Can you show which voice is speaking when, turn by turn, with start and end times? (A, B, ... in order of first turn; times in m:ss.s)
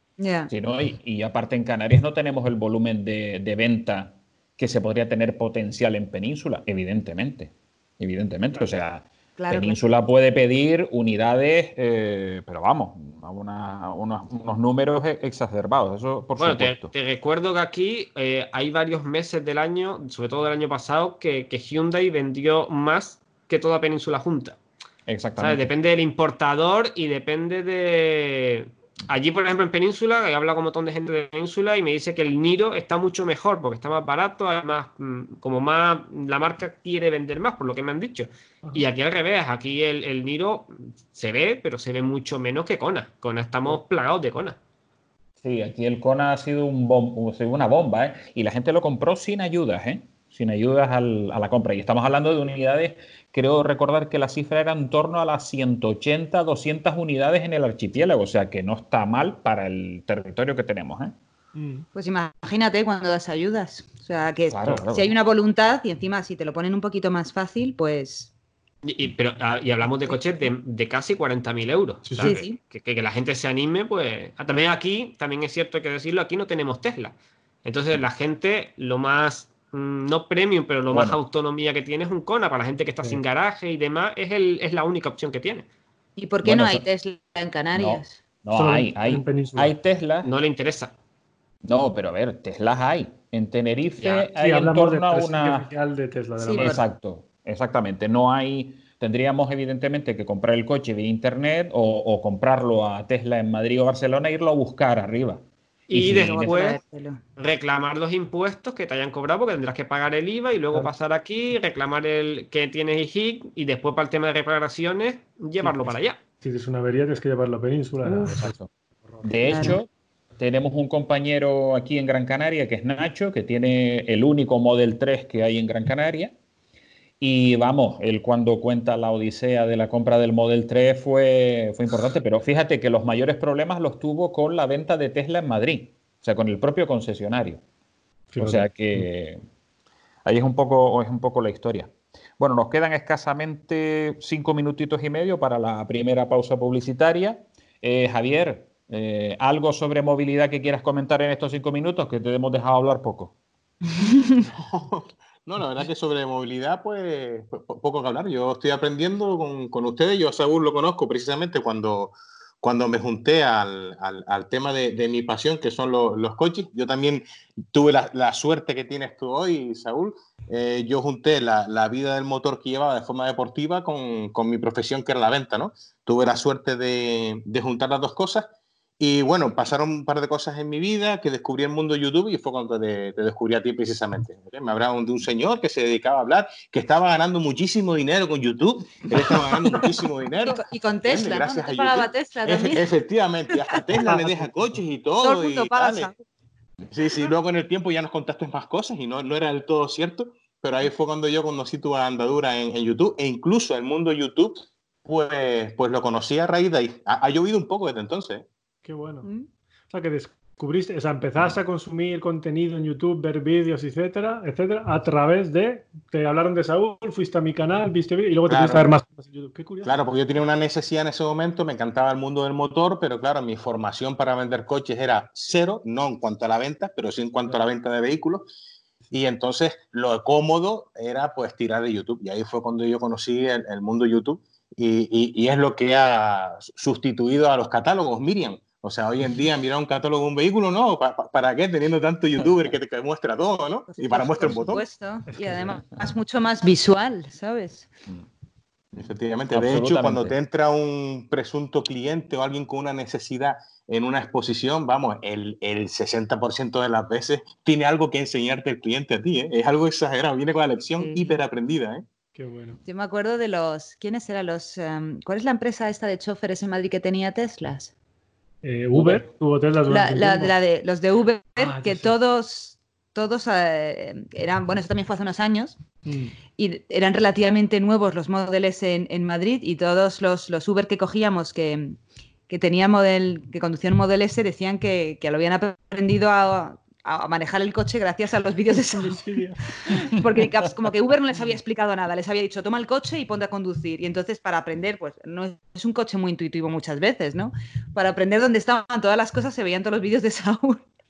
0:00.2-0:00.5 A
0:00.5-0:16.9 B
0:09.4-0:09.8 A
0:16.4-0:24.6 C
0:25.1-0:25.7 B
0:25.4-0:44.6 C
0:45.4-1:01.1 B
1:01.5-1:01.8 D
1:01.9-1:08.3 A
1:04.5-1:05.1 B
1:08.8-1:25.6 C
1:09.8-1:10.2 A
1:12.0-1:12.4 D
1:12.2-1:12.6 A
1:20.9-1:21.2 B
1:26.2-1:28.2 A
1:26.4-1:26.8 B
1:27.7-1:30.3 B
1:28.5-1:29.7 D
1:30.2-1:30.9 C
1:31.6-1:35.7 B
1:34.0-1:34.3 C
1:34.3-1:36.8 D
1:36.4-1:36.8 A
1:36.5-1:46.7 B
1:45.9-1:46.8 C
1:46.2-1:47.2 A
1:47.4-1:56.2 C
1:55.6-1:58.5 D
1:58.0-1:58.7 B
1:59.2-1:59.8 D
1:59.2-2:06.3 B
2:07.2-2:17.6 B
2:18.3-2:19.0 D
2:18.4-2:19.4 B
2:20.2-2:33.3 B
2:34.4-2:58.5 E
2:59.0-3:16.1 E
3:09.2-3:09.8 A
3:10.4-3:12.8 A
3:14.0-3:14.5 D
3:15.2-3:16.2 A
3:16.9-3:28.4 E
3:28.8-3:29.3 D
3:29.9-3:40.0 D
3:38.5-3:38.9 E
3:39.8-3:48.5 E
3:49.1-4:04.8 E
4:03.9-4:07.9 A
4:05.3-4:05.8 D
4:08.9-4:22.0 E
4:09.5-4:10.3 B
4:21.0-4:21.4 A
4:22.3-4:22.8 D
4:22.8-4:27.9 A
4:28.6-4:30.5 D
4:29.9-4:35.8 A
4:31.6-4:32.1 D
4:36.0-4:36.3 D
4:36.5-4:42.0 A
4:42.5-4:49.2 A
4:48.8-4:50.1 D
4:49.8-5:00.8 A